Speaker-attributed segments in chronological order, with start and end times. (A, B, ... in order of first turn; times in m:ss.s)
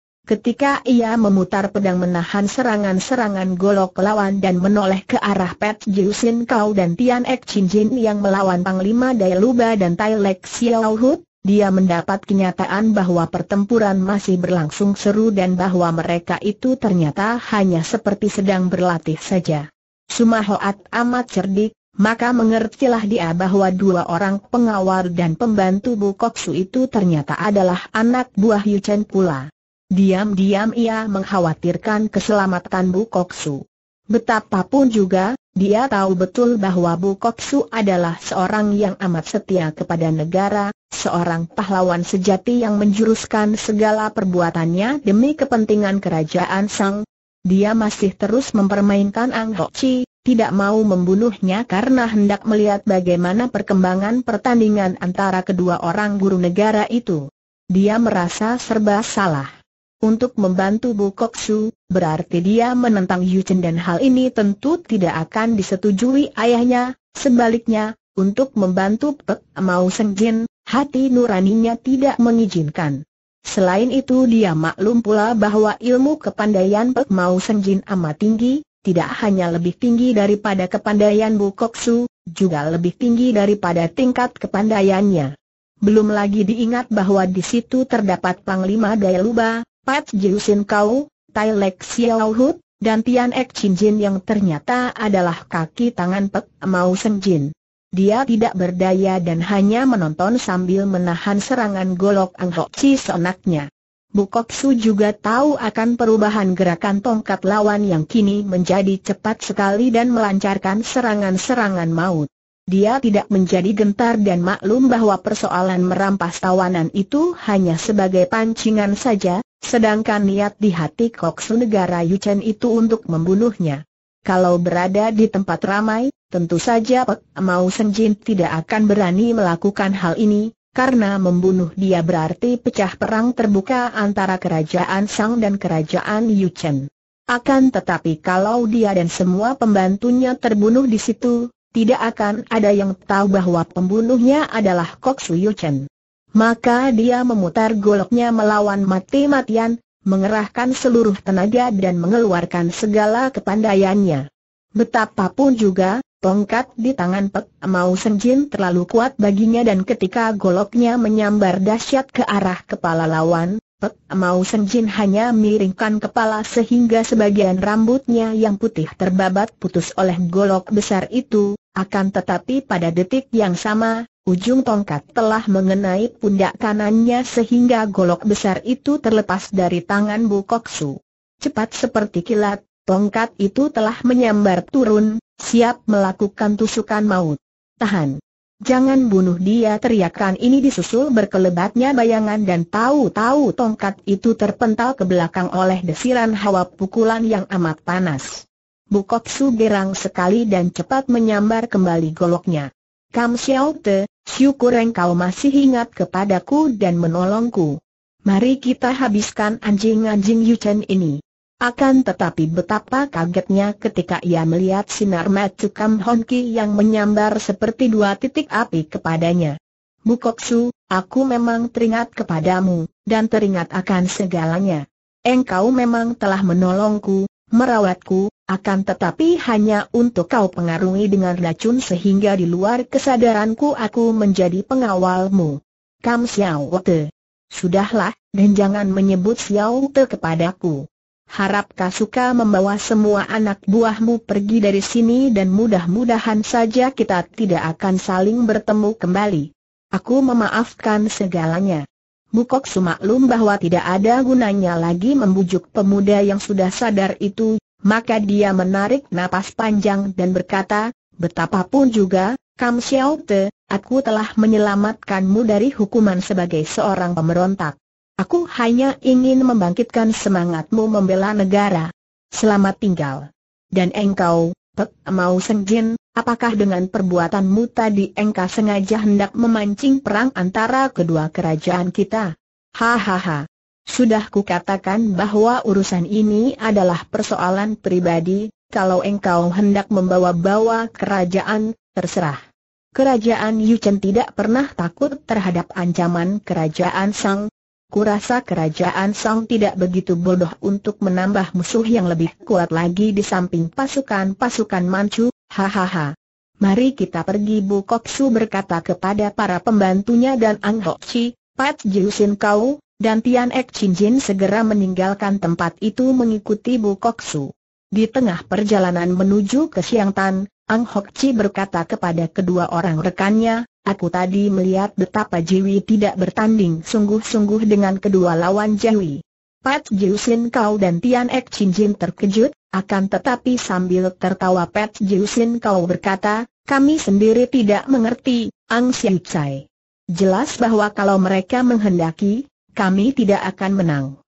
0:00.3-0:33.6 A
0:34.1-0:59.5 A
1:00.0-1:25.3 A
1:25.8-2:25.8 A
2:26.4-2:34.2 A
2:34.8-3:39.6 A
3:40.1-4:11.8 A
4:12.3-4:52.4 A
4:53.0-5:44.1 A